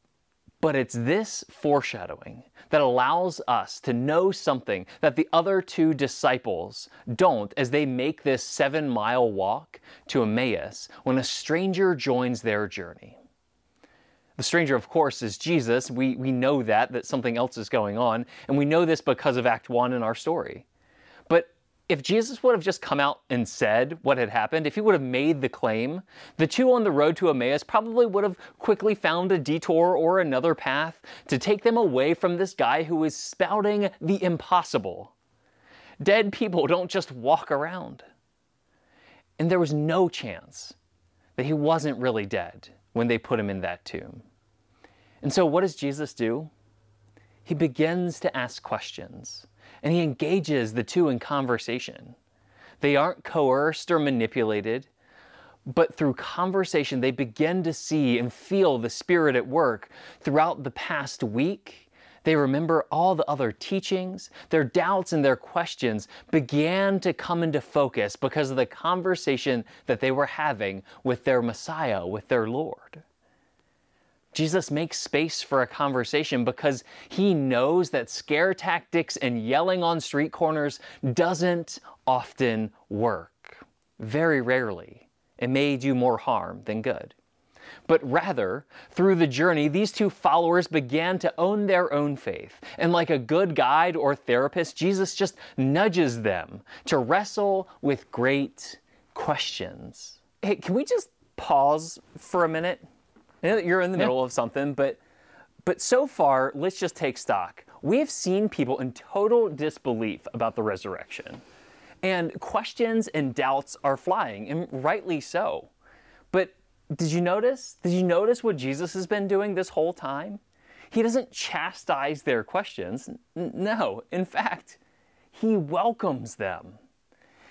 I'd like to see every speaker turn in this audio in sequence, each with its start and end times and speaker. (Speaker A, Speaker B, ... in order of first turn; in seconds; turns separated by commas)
Speaker A: 0.6-13.2, Speaker A: 14.4-20.6, Speaker A: 21.3-35.1, Speaker A: 36.0-38.0, Speaker A: 39.4-40.8, Speaker A: 41.4-44.2, Speaker A: 45.2-46.5, Speaker A: 47.5-52.2, Speaker A: 52.8-54.9, Speaker A: 55.7-73.0, Speaker A: 74.3-87.1, Speaker A: 87.9-102.8, Speaker A: 103.4-105.0, Speaker A: 105.6-111.4, Speaker A: 112.0-115.7, Speaker A: 116.3-120.4, Speaker A: 120.9-124.8, Speaker A: 125.3-126.8